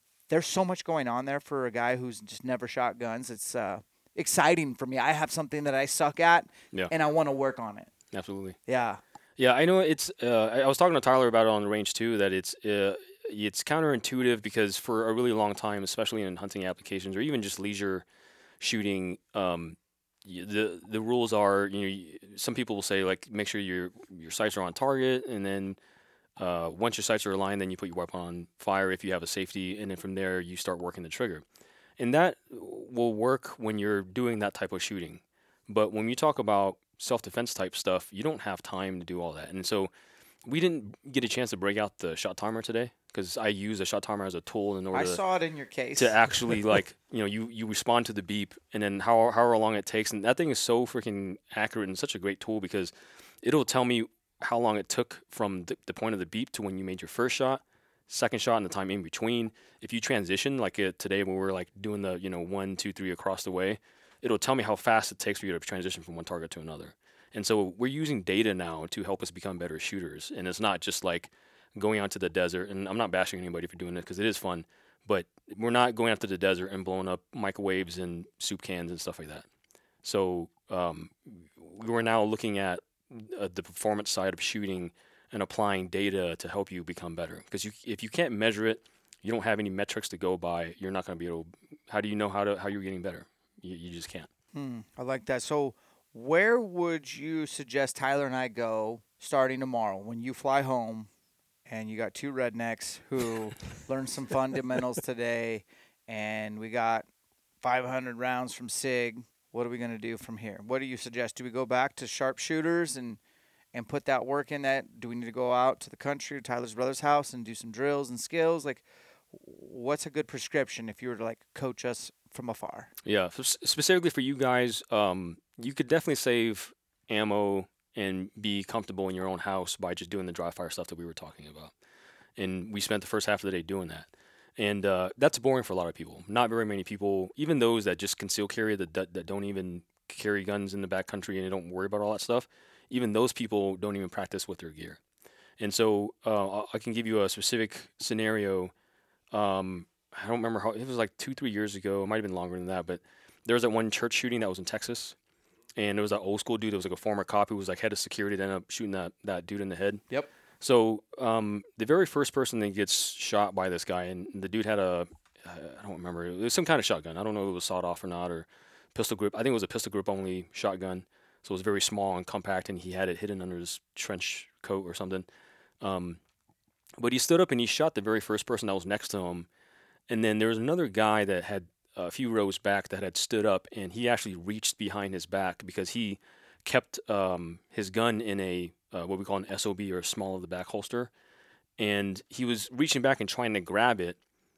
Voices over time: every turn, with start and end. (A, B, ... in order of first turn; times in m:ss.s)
0:00.3-0:07.9 A
0:08.1-0:08.6 B
0:08.7-0:09.0 A
0:09.4-0:18.0 B
0:18.6-0:25.8 B
0:26.4-0:31.4 B
0:32.0-0:39.9 B
0:40.4-0:45.2 B
0:44.9-0:46.2 A
0:46.0-0:52.9 B
0:53.4-1:19.5 B
1:20.0-1:34.3 B
1:34.5-1:41.1 A
1:41.7-1:47.1 A
1:47.6-1:53.2 A
1:53.7-2:02.9 A
2:03.0-2:11.7 B
2:12.4-2:25.0 B
2:25.6-2:28.7 B
2:29.3-2:35.2 B
2:35.8-2:40.0 B
2:40.6-2:55.3 B
2:55.8-2:56.2 B
2:57.0-2:59.5 B
3:00.1-3:11.1 B
3:11.8-3:14.2 B